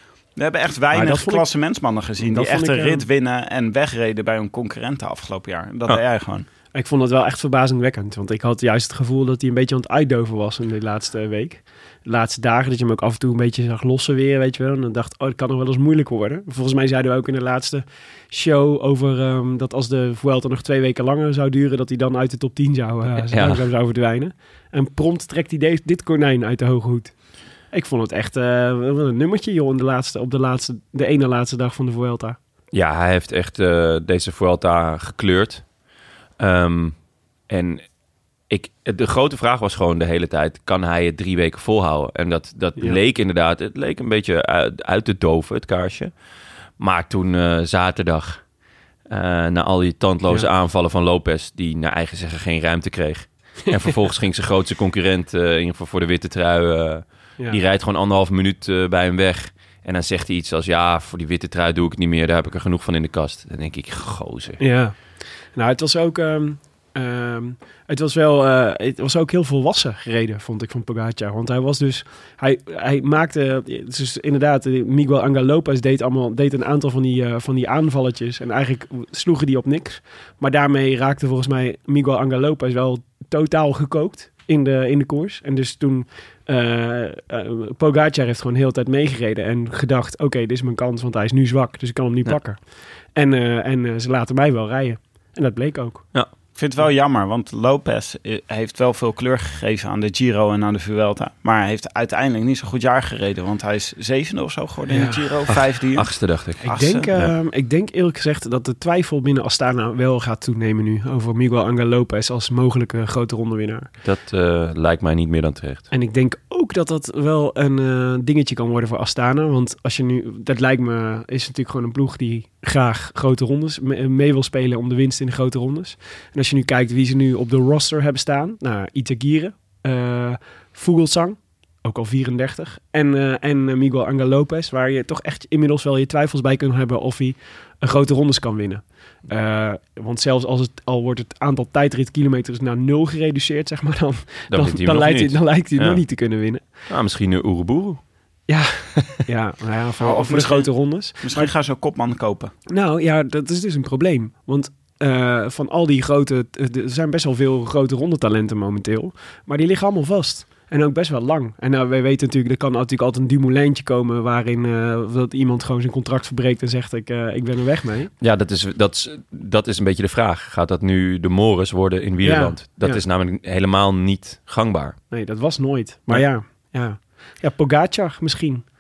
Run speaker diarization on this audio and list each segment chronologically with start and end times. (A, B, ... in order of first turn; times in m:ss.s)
0:00.4-0:06.4 A
0:00.9-0:01.4 B
0:02.2-0:03.0 B
0:06.7-0:27.1 B
0:23.3-0:23.6 C
0:27.7-0:32.4 B
0:32.7-0:35.6 C
0:36.4-0:37.0 C
0:37.5-0:37.8 C
0:38.5-0:46.1 C
0:46.8-0:48.4 C
0:49.1-1:04.6 C
1:04.6-1:05.0 B
1:05.5-1:32.6 B
1:33.1-1:36.0 B
1:36.6-1:46.1 A
1:44.9-1:45.3 B
1:45.5-1:47.3 C
1:46.6-1:53.9 B
1:54.0-1:55.9 C
1:55.9-2:26.6 B
2:24.5-2:26.0 C
2:26.9-2:28.0 C
2:28.5-2:31.5 B
2:30.0-2:32.5 A
2:32.7-2:48.1 B
2:48.2-2:55.0 C
2:52.2-2:53.0 B
2:55.1-2:58.6 B